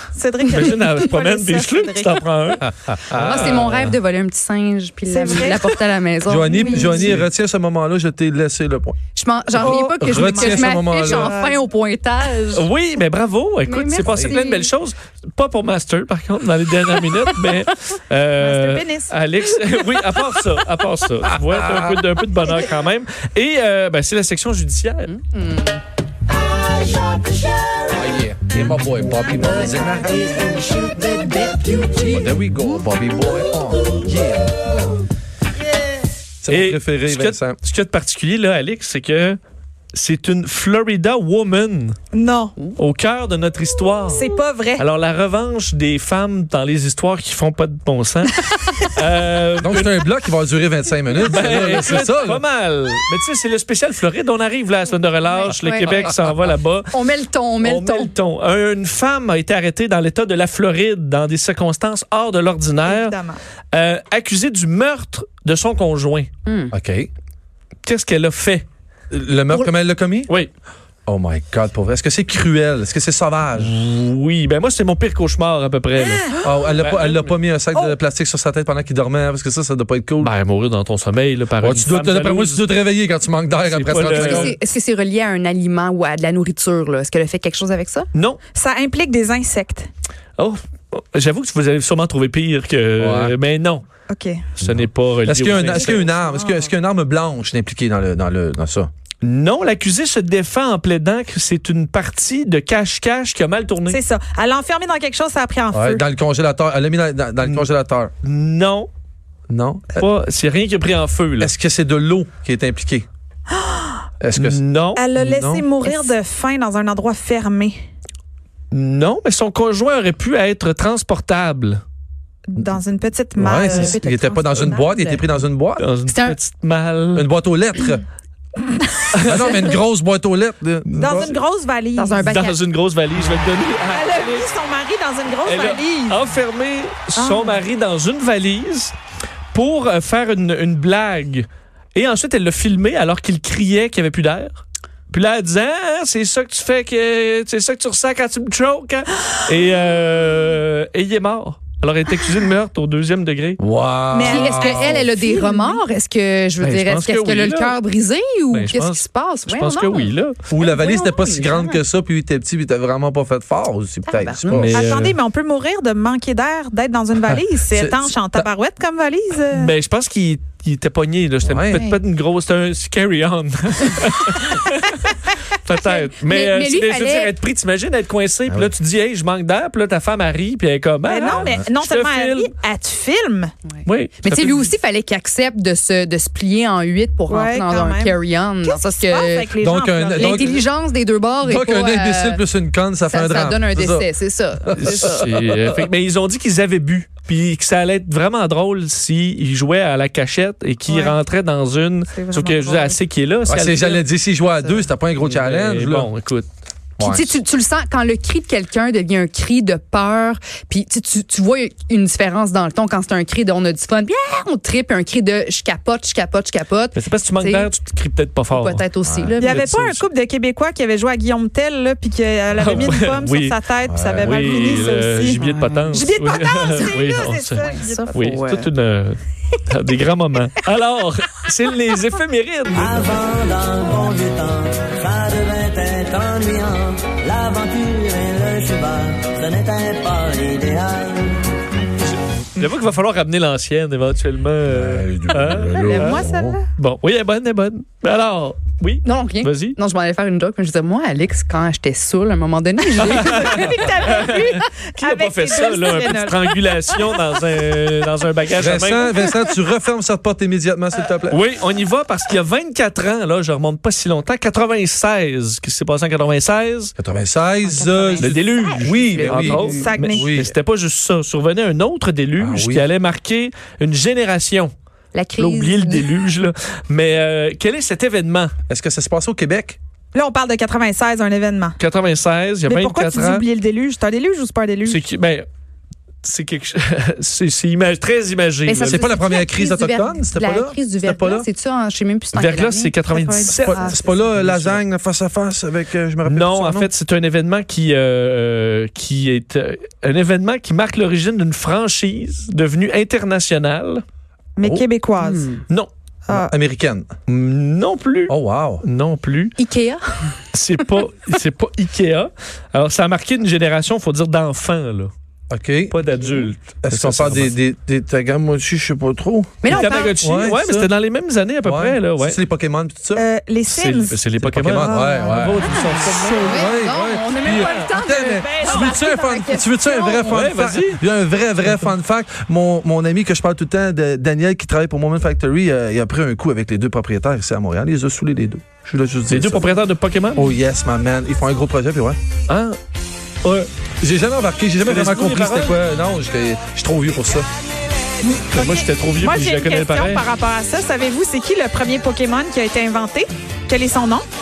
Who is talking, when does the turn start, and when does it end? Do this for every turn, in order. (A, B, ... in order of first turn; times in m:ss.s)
0:00.1-0:02.2 A
0:00.5-0:04.0 B
0:02.8-0:03.8 C
0:03.1-0:07.2 D
0:05.1-0:05.8 A
0:06.2-0:09.0 C
0:06.4-0:07.2 A
0:09.2-0:12.7 D
0:09.5-0:11.4 C
0:10.1-0:11.6 A
0:12.5-0:25.1 B
0:13.7-0:14.7 D
0:14.1-0:14.3 C
0:18.4-0:19.1 A
0:21.4-0:22.0 C
0:25.1-0:25.8 D
0:27.9-0:30.4 C
0:31.8-0:34.8 C
0:36.4-0:37.6 C
0:36.5-0:39.4 B
0:39.9-0:42.0 B
0:42.1-0:42.6 A
0:42.8-0:50.0 B
0:44.1-0:44.8 A
0:49.6-0:52.4 C
0:51.2-0:56.9 B
0:55.3-0:56.1 D
0:56.9-0:58.1 D
0:57.6-1:03.2 B
1:02.8-1:03.4 A
1:03.7-1:06.3 B
1:06.5-1:06.7 D
1:06.7-1:07.1 C
1:07.8-1:08.7 B
1:09.1-1:10.3 C
1:11.1-1:13.8 C
1:13.6-1:17.4 B
1:16.0-1:16.6 A
1:16.4-1:20.3 C
1:20.2-1:22.6 B
1:21.6-1:24.6 C
1:23.7-1:24.6 B
1:24.0-1:28.1 D
1:28.1-1:28.4 B
1:28.6-1:29.9 A
1:30.4-1:33.8 B
1:33.0-1:33.4 C
1:34.1-1:34.5 A
1:34.6-1:36.1 B
1:34.6-1:38.9 C
1:35.8-1:36.7 A
1:39.2-1:44.0 B
1:43.9-1:46.0 A
1:45.7-1:48.1 C
1:48.2-1:48.9 B
1:49.5-1:50.0 C
1:49.9-1:51.5 B
1:51.4-1:53.1 C
1:53.5-1:54.1 A
1:54.2-1:54.6 C
1:54.4-1:55.0 B
1:55.0-1:57.8 A
1:55.2-1:55.6 C
1:55.8-1:56.1 D
1:58.7-2:01.8 B
2:02.5-2:04.0 A
2:03.4-2:05.8 C
2:03.5-2:05.4 D
2:05.8-2:07.3 B
2:06.1-2:06.4 D
2:07.2-2:08.0 C
2:09.1-2:09.8 B
2:09.2-2:11.4 C
2:11.0-2:12.2 A
2:11.1-2:11.4 B
2:12.0-2:12.6 D
2:12.2-2:14.5 B
2:13.8-2:16.2 A
2:15.4-2:19.0 B
2:17.2-2:17.6 A
2:19.5-2:33.6 B
2:33.6-2:35.1 C
2:34.1-2:35.8 A
2:34.2-2:41.8 D
2:36.6-2:37.8 B
2:38.5-2:40.4 B
2:40.5-2:44.9 C
2:44.1-2:44.7 D
2:44.5-2:45.2 B
2:44.7-2:49.7 A
2:47.7-2:48.5 C
2:49.5-3:02.5 B
2:51.4-2:51.8 C
2:51.7-2:52.0 D
2:55.8-2:57.3 D
3:01.0-3:03.5 A
3:01.4-3:01.7 C
3:03.8-3:09.6 D
3:03.8-3:04.7 B
3:07.3-3:10.6 A
3:09.6-3:10.6 C
3:10.2-3:12.4 D
3:11.4-3:14.1 C
3:13.0-3:15.2 D
3:14.7-3:15.7 C
3:14.8-3:24.0 B
3:20.9-3:21.2 A
3:22.1-3:23.0 A
3:23.5-3:26.1 C
3:25.2-3:26.5 B
3:27.0-3:27.4 C
3:27.0-3:37.7 D
3:37.0-3:38.8 B
3:38.5-3:39.6 D
3:39.0-3:39.3 C
3:39.4-3:45.4 A
3:39.4-3:40.0 B
3:42.6-3:42.9 C
3:42.6-3:43.6 B
3:43.9-3:44.8 C
3:44.2-3:53.2 B
3:45.3-3:46.0 D
3:45.9-3:48.3 A
3:47.6-3:48.7 D
3:52.8-4:01.1 E
4:02.6-4:06.2 B
4:04.7-4:06.6 C
4:05.8-4:06.7 A
4:06.8-4:09.8 B
4:09.0-4:13.8 D
4:13.0-4:19.3 B
4:13.1-4:16.6 A
4:18.6-4:21.4 C
4:21.3-4:26.9 B
4:27.0-4:30.5 C
4:27.6-4:29.9 D
4:28.2-4:34.7 B
4:29.7-4:30.3 A
4:32.4-4:32.9 C
4:35.1-4:36.1 D
4:35.4-4:38.5 B
4:38.7-4:39.8 C
4:40.1-4:41.8 A
4:41.8-4:43.4 B
4:42.6-4:45.0 A
4:44.8-4:45.5 B
4:46.2-4:49.0 B
4:48.7-4:54.3 D
4:48.8-4:51.5 C
4:52.3-4:54.8 B
4:53.2-4:53.5 A
4:53.5-4:56.9 C
4:56.2-5:04.0 B
5:04.6-5:05.5 A
5:05.2-5:05.6 D
5:06.3-5:06.5 A
5:06.3-5:07.1 C
5:07.3-5:09.6 B
5:08.3-5:08.8 C
5:09.6-5:10.4 D
5:10.5-5:15.1 B
5:15.5-5:16.0 C
5:15.9-5:17.6 B
5:16.8-5:20.9 C
5:19.6-5:20.2 D
5:19.7-5:22.4 B
5:21.6-5:23.3 C
5:23.2-5:24.2 A
5:23.7-5:26.8 B
5:24.4-5:25.7 C
5:24.7-5:25.4 A
5:25.2-5:30.4 D
5:26.4-5:39.7 C
5:27.3-5:29.1 A
5:27.6-5:27.9 B
5:30.2-5:31.0 B
5:39.3-5:40.5 B
5:40.4-5:42.2 C
5:42.5-5:42.8 B
5:44.0-5:47.5 C
5:44.8-5:45.8 B
5:48.2-5:54.3 A
5:48.5-5:50.2 B